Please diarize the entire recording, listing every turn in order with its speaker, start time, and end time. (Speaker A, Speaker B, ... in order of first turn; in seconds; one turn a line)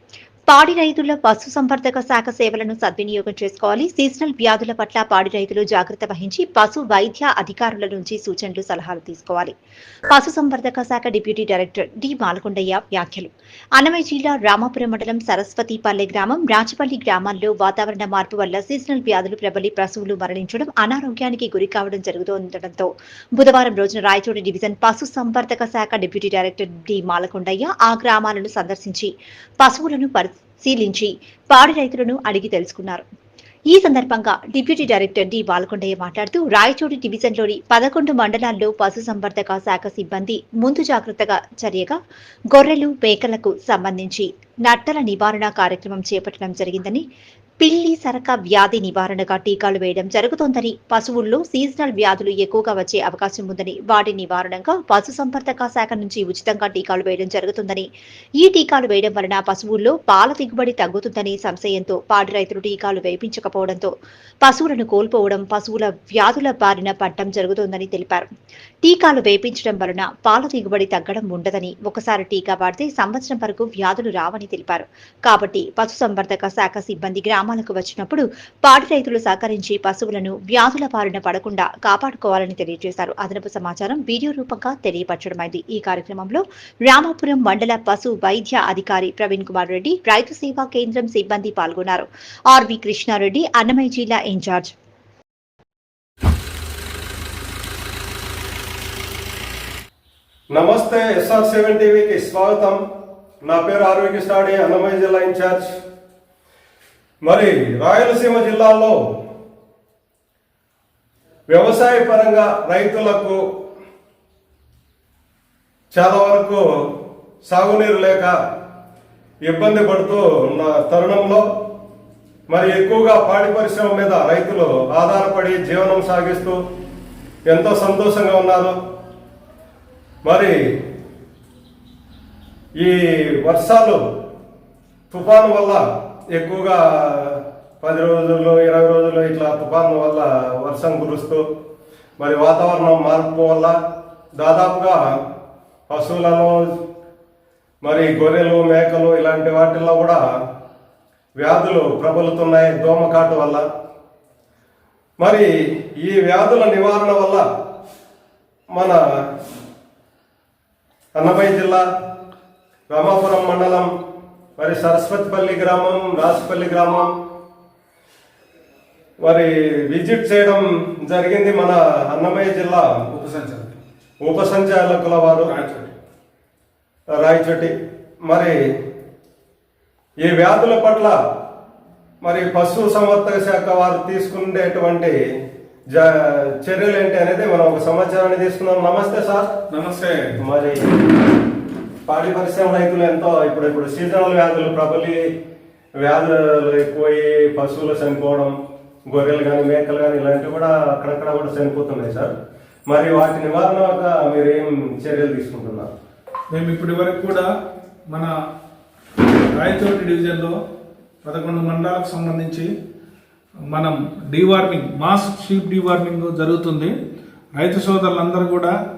Speaker A: 0.5-9.6
Speaker A: 10.1-33.0
Speaker A: 33.7-42.0
Speaker A: 42.5-47.0
Speaker A: 47.6-68.3
Speaker A: 68.8-94.7
Speaker B: 100.5-102.8
Speaker B: 103.4-105.7
Speaker B: 107.2-109.0
Speaker B: 111.5-113.4
Speaker B: 115.9-116.6
Speaker B: 117.5-118.3
Speaker B: 119.5-121.4
Speaker B: 122.5-126.6
Speaker B: 127.5-128.7
Speaker B: 130.2-130.6
Speaker B: 132.8-134.0
Speaker B: 135.1-135.8
Speaker B: 136.3-141.4
Speaker B: 142.2-143.8
Speaker B: 144.4-145.0
Speaker B: 145.9-146.6
Speaker B: 147.8-150.2
Speaker B: 151.4-153.6
Speaker B: 155.2-157.4
Speaker B: 158.7-159.0
Speaker B: 161.2-161.8
Speaker B: 162.9-163.9
Speaker B: 164.6-167.1
Speaker B: 169.2-172.9
Speaker C: 173.1-173.8
Speaker B: 174.2-175.5
Speaker C: 175.4-175.9
Speaker B: 177.1-177.7
Speaker B: 178.3-178.6
Speaker B: 180.2-181.2
Speaker B: 182.2-185.2
Speaker B: 185.9-189.5
Speaker C: 189.7-190.4
Speaker B: 190.4-190.9
Speaker B: 192.1-195.2
Speaker B: 196.0-198.5
Speaker B: 199.1-202.3
Speaker B: 202.9-205.9
Speaker C: 206.5-207.5
Speaker C: 209.6-210.6
Speaker C: 211.2-212.7
Speaker C: 213.7-216.9
Speaker C: 217.6-218.7